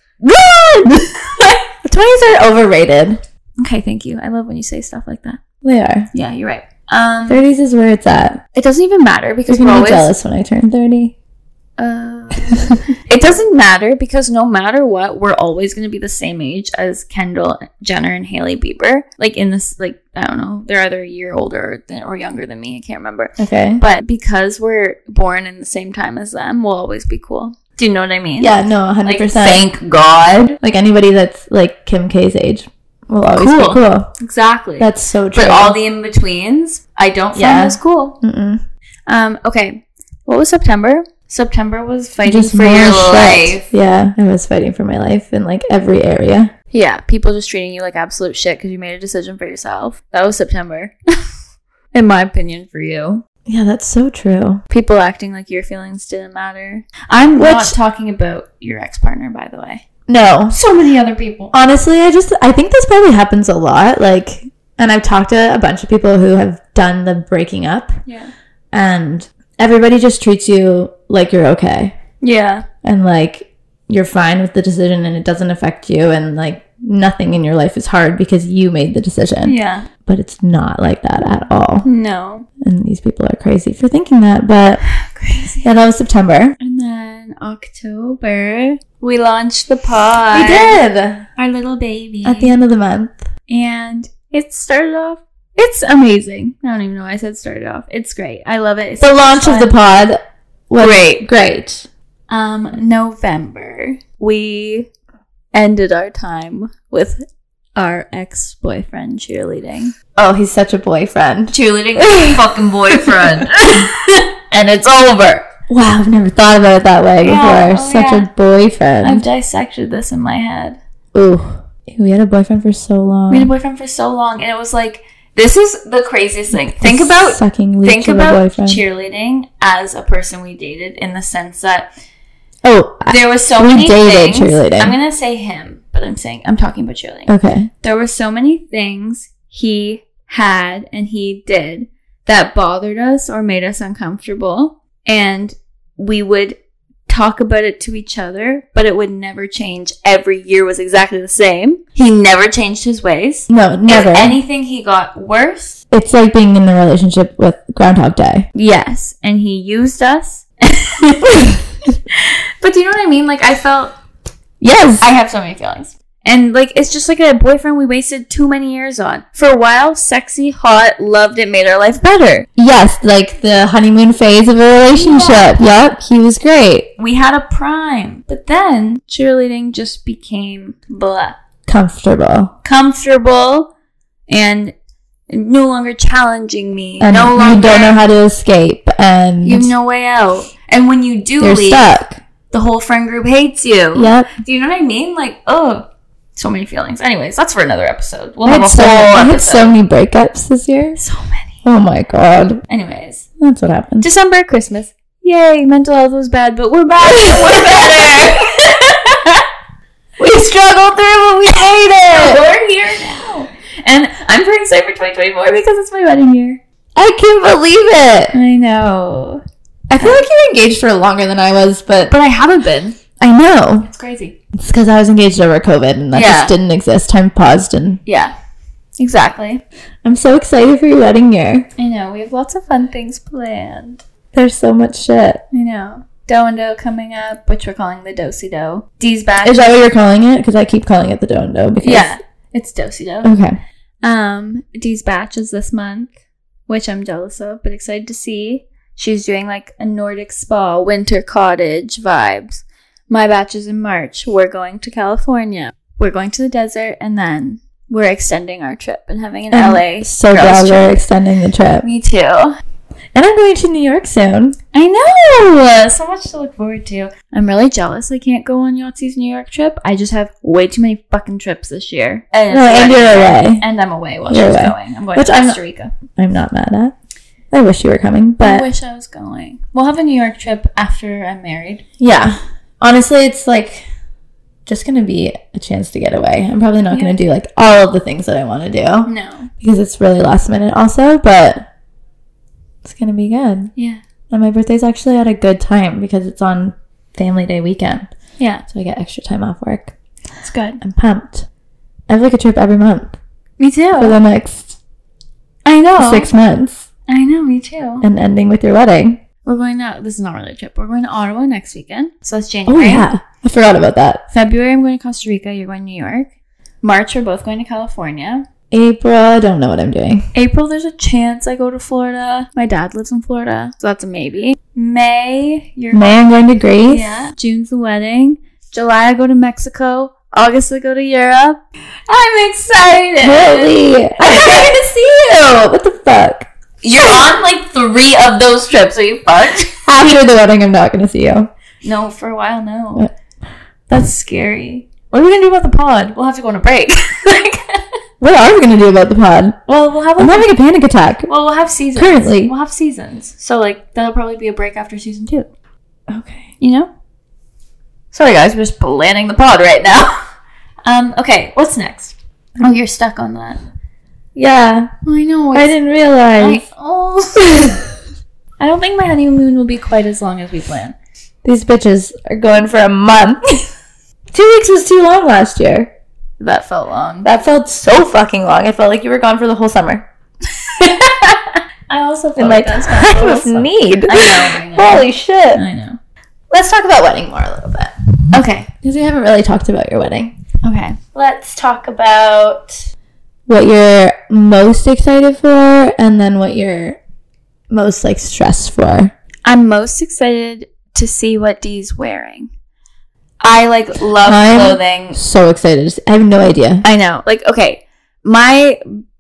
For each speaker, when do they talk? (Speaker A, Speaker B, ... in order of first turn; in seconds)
Speaker A: 0.2-1.6, 3.6-5.4, 6.1-7.4, 8.5-10.1, 11.8-30.6, 33.3-38.2, 39.1-43.6, 46.7-50.9, 51.9-53.2, 54.7-59.8, 60.5-61.5, 68.0-68.3, 72.2-72.7, 79.4-79.9, 81.8-82.5, 85.0-85.7, 86.6-90.8, 91.4-92.5, 93.5-99.8, 100.8-101.2, 102.3-104.9, 105.5-107.2, 107.8-109.9, 111.5-115.5, 117.2-118.3, 119.0-120.8, 123.3-131.9, 133.1-146.6, 147.1-155.8, 158.5-161.6, 162.1-163.9, 165.0-172.5, 174.9-175.6, 177.0-181.3, 182.6-183.7, 184.3-184.7, 185.3-188.0, 189.4-191.9, 192.5-199.7, 200.9-201.6, 202.7-203.2, 204.0-209.4, 210.2-210.7, 212.0-216.6, 218.3-219.4, 220.0-220.2, 222.1-223.0, 223.8-224.4, 226.1-226.5, 228.1-228.3, 229.0-229.6, 231.8-234.0, 235.5-239.8, 241.8-243.3, 244.0-246.1, 246.7-261.0, 261.8-262.6, 264.7-275.9, 278.4-281.8, 289.1-289.5, 293.8-294.0, 298.4-298.6, 300.4-300.8, 303.6-304.2, 305.6-306.3, 307.1-308.1, 309.4-313.1, 314.3-316.3, 316.8-318.4, 320.3-326.2, 326.9-335.0, 336.8-339.8, 341.8-343.1, 343.9-347.8, 349.7-350.5, 351.3-355.5, 356.6-356.9, 358.1-360.1, 360.9-363.6, 365.0-365.7, 366.4-367.8, 368.6-370.9, 376.4-377.3, 380.7-386.0, 388.3-388.7, 390.6-391.0, 399.4-402.5, 403.4-405.2, 406.8-408.8
Speaker B: 1.8-3.2, 5.6-6.1, 7.3-8.4, 9.5-11.1, 12.4-12.8, 23.4-23.8, 28.4-29.7, 30.6-34.1, 34.8-35.8, 37.3-38.6, 42.2-46.5, 53.5-54.6, 57.4-57.7, 60.1-60.5, 61.5-68.0, 68.7-72.0, 72.8-81.8, 82.6-84.8, 85.6-86.6, 90.3-91.3, 92.2-93.2, 99.0-100.2, 100.7-101.9, 110.2-113.5, 115.7-119.2, 121.1-123.5, 126.5-128.8, 132.6-134.9, 137.3-137.7, 153.5-154.4, 155.9-158.5, 164.6-165.1, 172.6-176.9, 181.7-182.5, 187.0-189.7, 191.4-192.2, 193.9-194.3, 198.4-201.0, 201.6-202.6, 203.4-204.0, 207.0-208.2, 210.2-212.4, 216.9-218.3, 219.9-222.1, 223.2-223.9, 224.6-228.0, 230.0-231.7, 234.3-235.4, 239.4-242.1, 243.2-243.6, 259.5-261.9, 263.1-264.6, 272.5-273.6, 274.3-275.6, 276.1-276.9, 277.5-278.7, 282.0-283.9, 284.6-291.7, 292.8-293.7, 294.3-298.1, 298.7-299.9, 300.8-301.5, 302.1-303.1, 304.0-304.8, 306.0-306.8, 308.0-309.2, 312.7-314.2, 318.7-320.3, 325.9-327.2, 333.2-336.5, 337.0-337.2, 339.9-341.5, 348.2-349.6, 350.2-351.3, 351.9-352.5, 356.1-356.5, 364.3-364.9, 365.5-366.6, 371.4-373.7, 374.3-375.9, 377.2-380.1, 382.4-385.6, 386.5-387.9, 388.8-390.4, 391.1-392.9, 393.5-397.0, 397.7-399.1, 404.2-406.8